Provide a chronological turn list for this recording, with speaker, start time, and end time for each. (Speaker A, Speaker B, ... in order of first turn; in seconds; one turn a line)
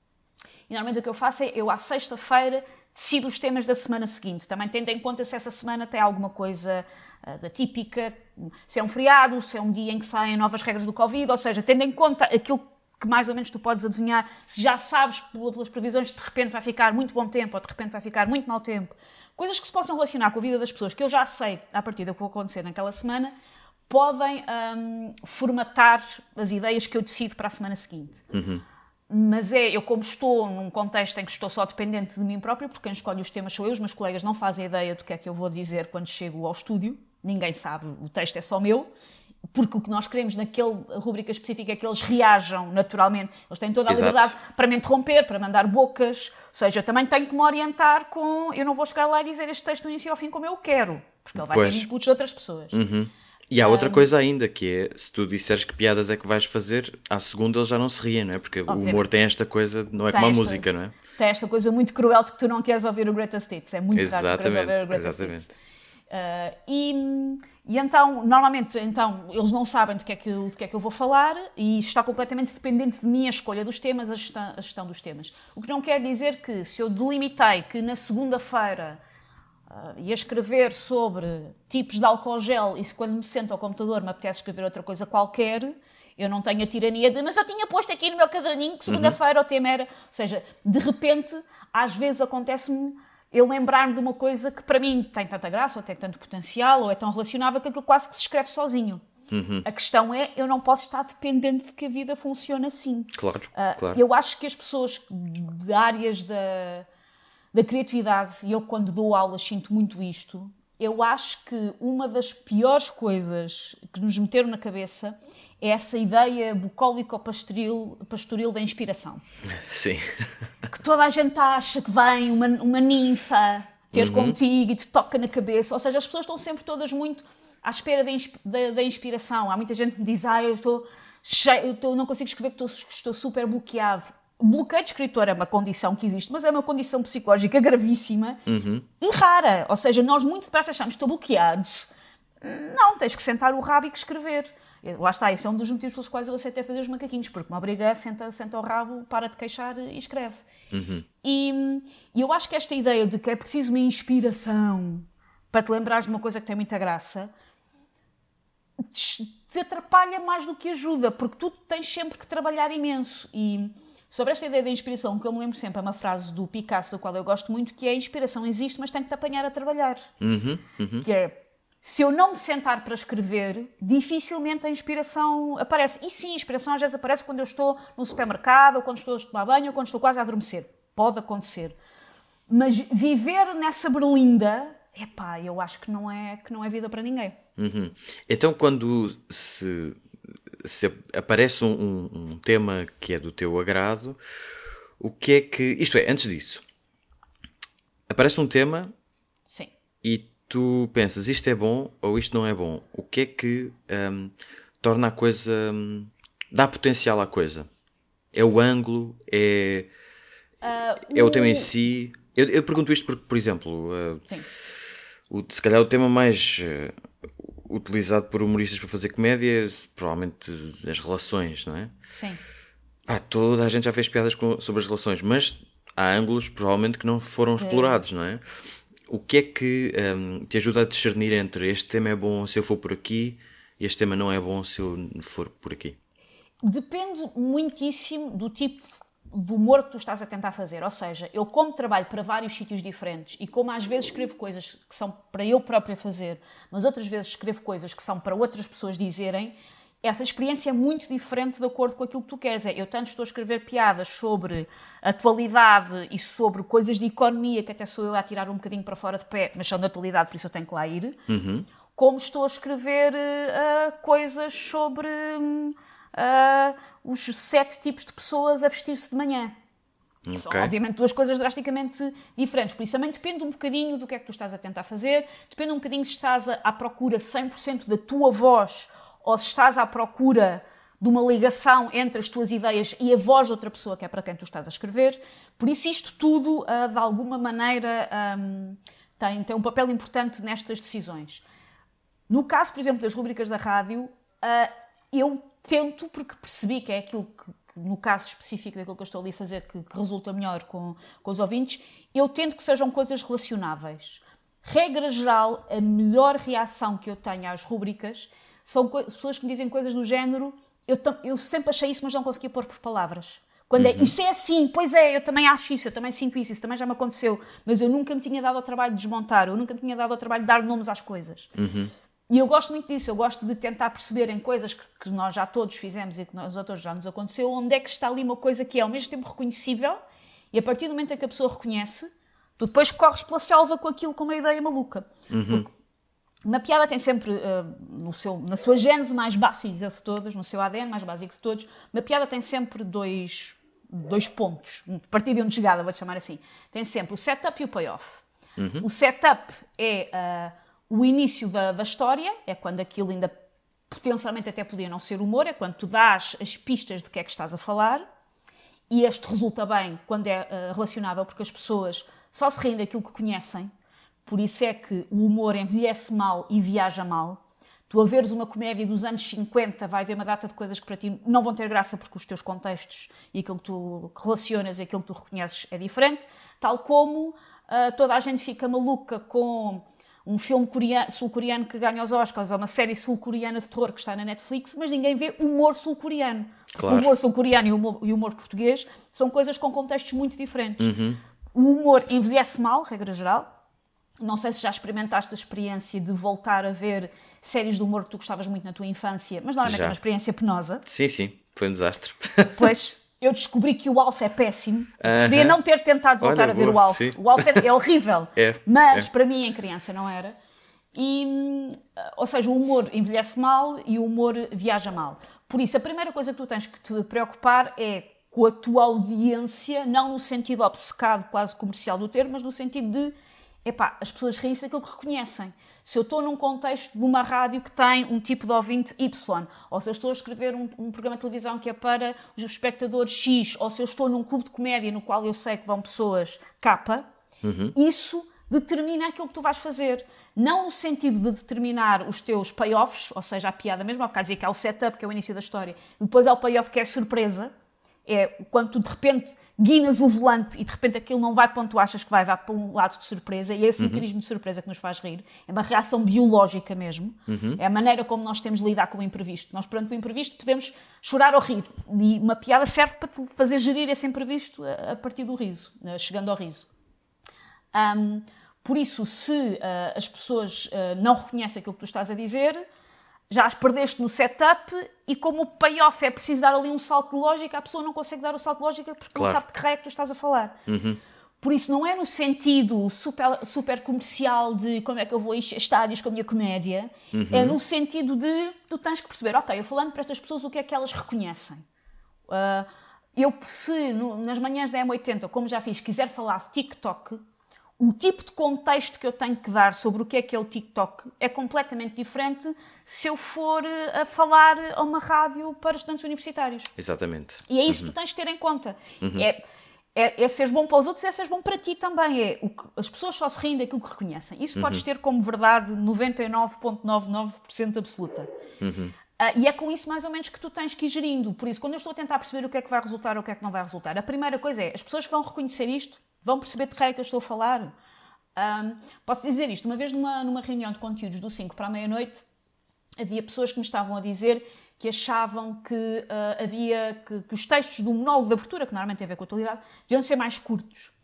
Speaker A: 0.7-23.3
Speaker A: 23.9-28.2
Speaker B: 28.3-28.6
Speaker A: 29.1-38.9
Speaker A: 39.5-52.8
Speaker B: 43.9-44.3
Speaker B: 51.4-51.9
Speaker B: 52.7-60.9
Speaker A: 53.6-54.0
Speaker A: 58.7-59.2
Speaker A: 60.1-65.5
Speaker B: 63.9-65.5
Speaker A: 66.1-79.0
Speaker A: 79.7-99.0
Speaker B: 88.9-89.2
Speaker B: 99.3-99.7
Speaker A: 99.7-106.9
Speaker B: 103.2-104.0
Speaker A: 107.5-119.2
Speaker B: 119.5-120.3
Speaker A: 120.7-138.4
Speaker B: 123.9-124.4
Speaker B: 138.5-138.9
Speaker A: 139.0-141.9
Speaker A: 142.4-150.4
Speaker B: 150.7-151.1
Speaker A: 151.2-157.3
Speaker A: 158.8-170.1
Speaker B: 170.2-171.1
Speaker A: 171.0-181.8
Speaker A: 182.5-187.4
Speaker B: 187.6-190.0
Speaker B: 190.6-194.2
Speaker B: 195.0-196.6
Speaker B: 198.1-198.9
Speaker B: 200.0-207.7
Speaker B: 208.3-209.9
Speaker A: 210.6-211.7
Speaker B: 211.1-214.2
Speaker B: 215.3-221.9
Speaker A: 222.1-222.4
Speaker B: 223.1-228.4
Speaker A: 227.6-228.0
Speaker B: 229.1-236.0
Speaker A: 236.6-261.2
Speaker B: 261.3-261.7
Speaker A: 262.0-269.5
Speaker B: 270.3-270.7
Speaker A: 270.3-291.4
Speaker A: 292.3-321.5
Speaker B: 313.8-314.1
Speaker B: 321.6-321.9
Speaker A: 322.3-330.0
Speaker A: 330.5-335.7
Speaker B: 335.3-335.7
Speaker A: 336.4-348.2
Speaker B: 348.6-348.9
Speaker A: 348.8-353.3
Speaker A: 353.9-358.1
Speaker A: 358.9-363.7
Speaker A: 364.3-390.9
Speaker B: 386.7-387.1
Speaker B: 390.8-391.2
Speaker A: 391.6-393.5
Speaker A: 394.2-400.8
Speaker B: 399.6-400.0
Speaker B: 400.9-402.6
Speaker A: 402.6-410.4
Speaker B: 405.0-405.6
Speaker B: 406.2-407.6
Speaker B: 408.4-409.1
Speaker A: 410.9-423.1
Speaker A: 423.6-437.1
Speaker B: 437.4-437.7
Speaker A: 437.8-447.5
Speaker A: 448.1-466.7
Speaker B: 453.8-454.1
Speaker B: 457.3-457.6
Speaker A: 467.7-472.6
Speaker A: 473.3-480.6
Speaker B: 479.1-479.4
Speaker B: 480.7-481.0
Speaker A: 481.4-491.6
Speaker B: 487.1-487.6
Speaker A: 492.3-497.2
Speaker A: 497.8-506.7
Speaker B: 506.8-507.9
Speaker A: 507.5-509.4
Speaker A: 509.9-518.3
Speaker B: 514.6-514.8
Speaker B: 518.6-518.9
Speaker A: 519.2-527.7
Speaker A: 528.4-532.2
Speaker A: 533.0-540.9